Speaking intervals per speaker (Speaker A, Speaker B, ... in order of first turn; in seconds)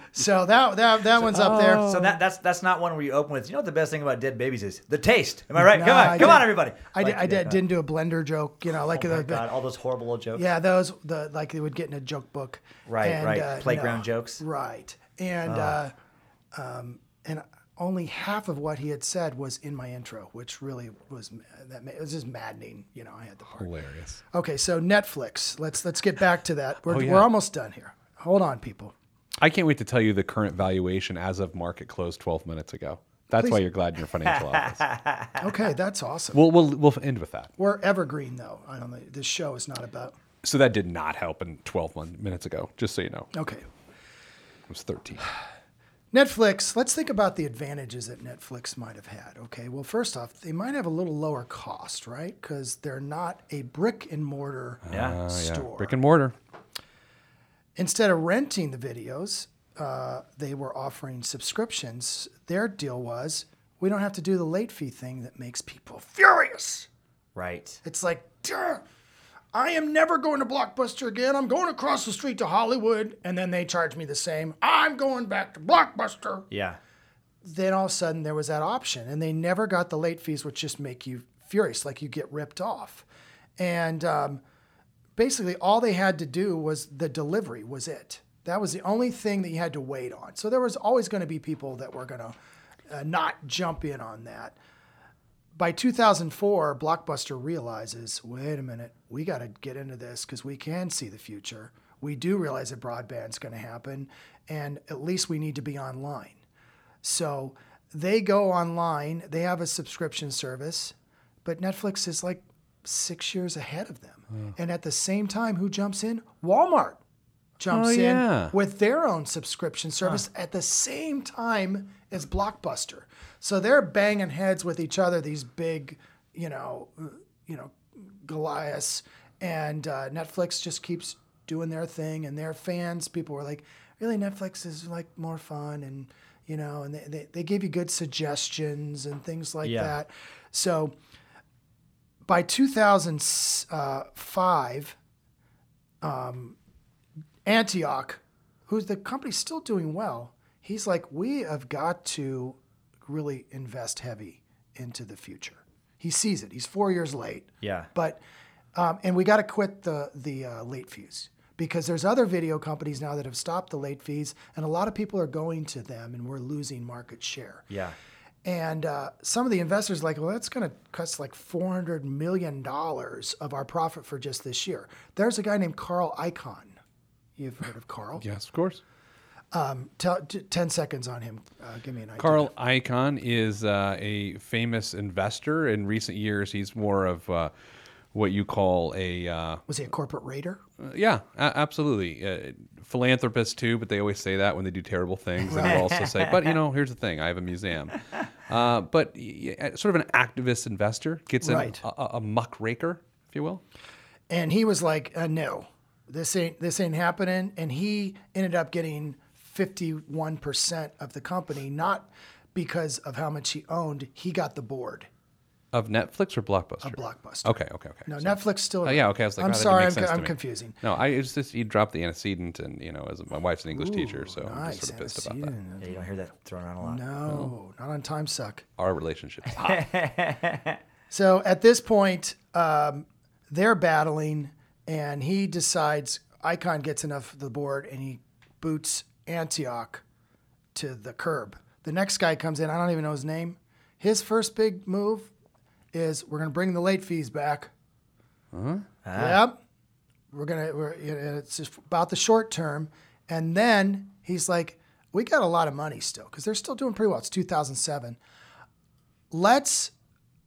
Speaker A: 0.1-1.9, 5.5-9.5, 10.3-15.9, 16.5-23.7, 24.3-28.9, 33.4-33.6, 35.4-36.4, 37.6-40.1, 43.3-43.6, 46.1-56.0, 57.8-66.9, 67.8-68.8, 69.5-76.5, 77.4-83.0, 83.6-84.4, 85.2-92.3, 92.9-94.6, 95.5-106.4, 107.0-117.0, 117.6-140.9, 142.2-145.0, 146.0-146.6, 147.4-158.2, 158.7-167.7, 168.4-176.8, 177.4-178.2, 179.5-182.5, 189.7-190.6, 195.5-195.8, 201.4-201.8, 204.3-215.1, 216.8-220.8, 223.7-226.0, 226.8-228.6, 231.1-240.0, 240.7-245.3, 245.9-247.7, 249.1-249.6, 250.3-258.2, 259.3-259.9
Speaker B: 1.3-2.1, 23.6-24.2, 26.9-27.3, 29.4-34.8, 36.3-37.5, 40.4-43.3, 44.7-45.3, 54.8-56.3, 117.7-118.5, 178.2-178.8, 182.2-187.5, 188.1-189.6, 190.8-203.6, 215.7-225.5, 227.3-227.5, 228.8-229.9, 248.5-248.8
Speaker C: 1.8-7.6, 8.9-10.4, 12.9-14.4, 15.5-15.8, 34.3-35.4, 54.9-55.2, 67.3-67.8, 76.5-76.8, 139.6-139.9, 157.6-157.9, 167.7-167.9, 195.6-196.5, 225.8-227.0, 229.6-230.8, 249.0-249.4